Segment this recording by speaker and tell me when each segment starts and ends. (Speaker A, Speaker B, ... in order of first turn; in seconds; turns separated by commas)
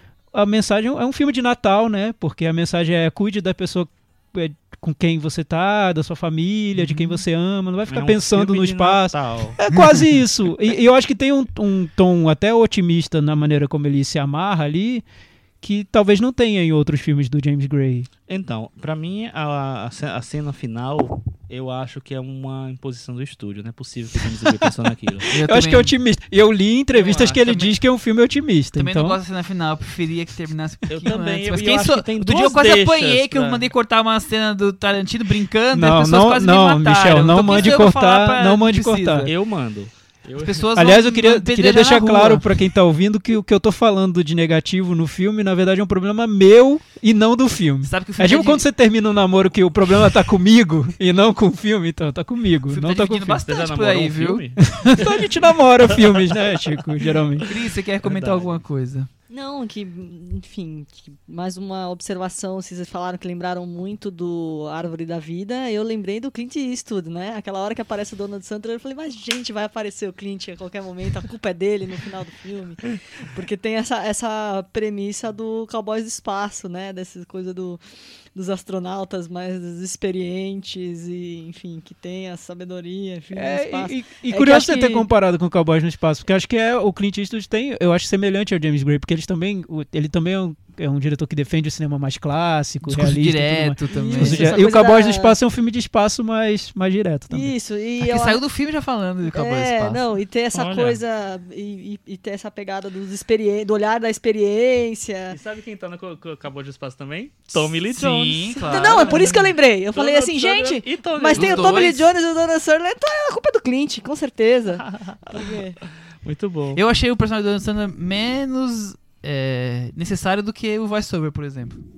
Speaker A: 0.3-15.0, Speaker B: 7.9-9.6, Speaker A: 15.6-18.1, Speaker B: 18.3-25.3, Speaker A: 25.2-29.2, Speaker C: 25.3-25.9, Speaker C: 26.9-27.7, Speaker C: 28.8-39.3, Speaker B: 30.9-33.7, Speaker A: 35.7-39.3, Speaker B: 39.2-40.6, Speaker C: 40.4-42.4, Speaker A: 40.8-53.4, Speaker C: 47.8-48.6, Speaker C: 52.7-54.4, Speaker B: 53.3-55.3, Speaker A: 54.7-57.5, Speaker B: 55.9-56.8, Speaker C: 57.4-59.1, Speaker B: 58.0-58.6, Speaker D: 59.3-77.8, Speaker D: 78.3-85.0, Speaker A: 83.3-97.5, Speaker C: 92.8-94.5, Speaker D: 93.9-95.3, Speaker D: 97.3-98.4, Speaker C: 98.0-100.0, Speaker D: 99.2-105.4, Speaker B: 100.5-101.0, Speaker B: 105.3-111.9, Speaker C: 107.9-109.2, Speaker D: 108.6-115.8, Speaker C: 111.3-112.1, Speaker B: 114.8-115.6, Speaker B: 116.2-116.8, Speaker C: 116.7-121.8